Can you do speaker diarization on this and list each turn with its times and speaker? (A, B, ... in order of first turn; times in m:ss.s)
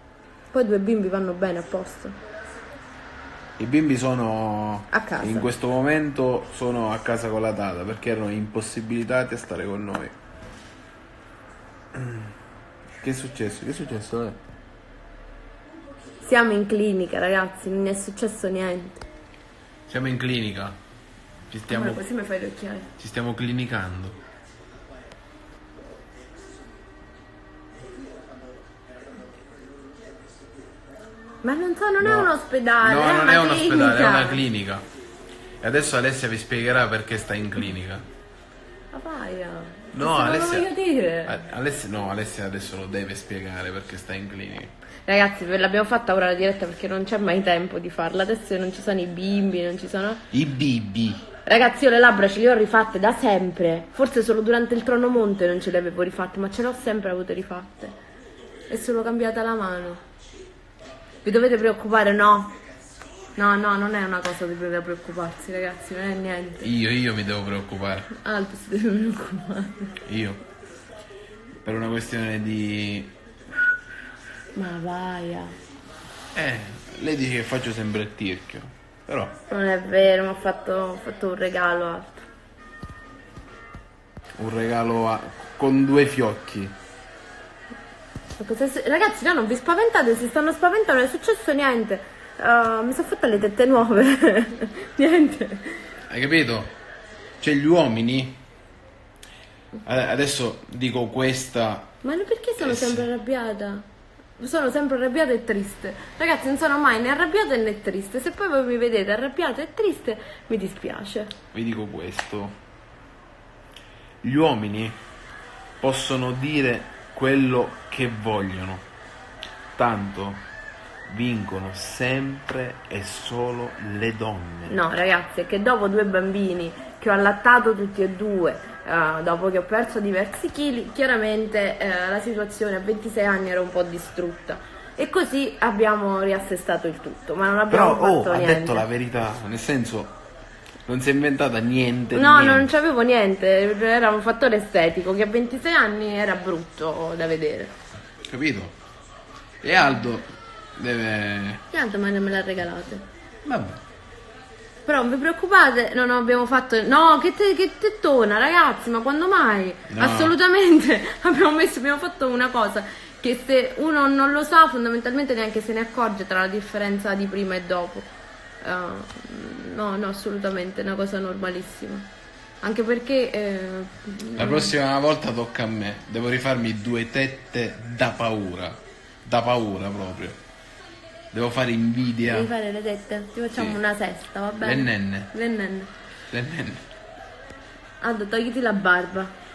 0:00.5-0:02.2 A
0:03.6-0:10.2 B
0:04.9-0:05.5 A
0:12.0-0:12.3 B
0:13.0-0:14.4 B
0:16.2-0:19.0 A
0:19.9-0:20.8 B
0:21.5-0:22.0 B
0:21.7-0:22.9 A
0:23.0-0:24.2 B
0:31.4-0:34.4 A
0:32.0-0:34.8 B
0:35.6-0:38.1 B
0:38.9-0:41.4 A
0:39.9-0:40.7 B
0:41.3-0:44.7 B
0:45.1-0:50.2 A
0:50.3-0:51.2 B
0:51.4-0:58.0 A
0:58.7-1:00.0 A
1:01.2-1:02.6 A
1:03.4-1:06.7 A
1:06.6-1:08.1 B
1:08.1-1:10.0 A
1:10.0-1:10.4 B
1:11.6-1:13.2 B
1:14.6-1:15.6 A
1:16.3-1:19.3 B
1:19.5-1:22.3 A
1:24.4-1:26.8 B
1:28.4-1:35.9 A
1:36.1-1:36.7 B
1:37.4-1:38.4 B
1:39.8-1:41.9 B
1:42.0-1:43.8 A
1:42.6-1:43.1 B
1:44.4-1:51.3 A
1:51.5-1:52.6 B
1:54.2-1:55.0 B
1:55.8-1:58.8 B
1:59.8-2:00.4 B
2:01.1-2:04.8 B
2:04.7-2:18.8 A
2:17.7-2:20.2 B
2:20.9-2:22.7 B
2:22.1-2:27.7 A
2:28.3-2:28.8 B
2:29.6-2:31.6 B
2:31.7-2:33.0 A
2:33.4-2:33.8 B
2:34.8-2:48.1 A
2:39.9-2:40.4 B
2:48.6-2:52.1 A
2:52.6-2:54.7 A
2:54.4-3:00.4 B
3:01.3-3:02.5 B
3:02.3-3:05.9 A
3:04.6-3:05.3 B
3:06.3-3:06.8 B
3:08.0-3:09.3 A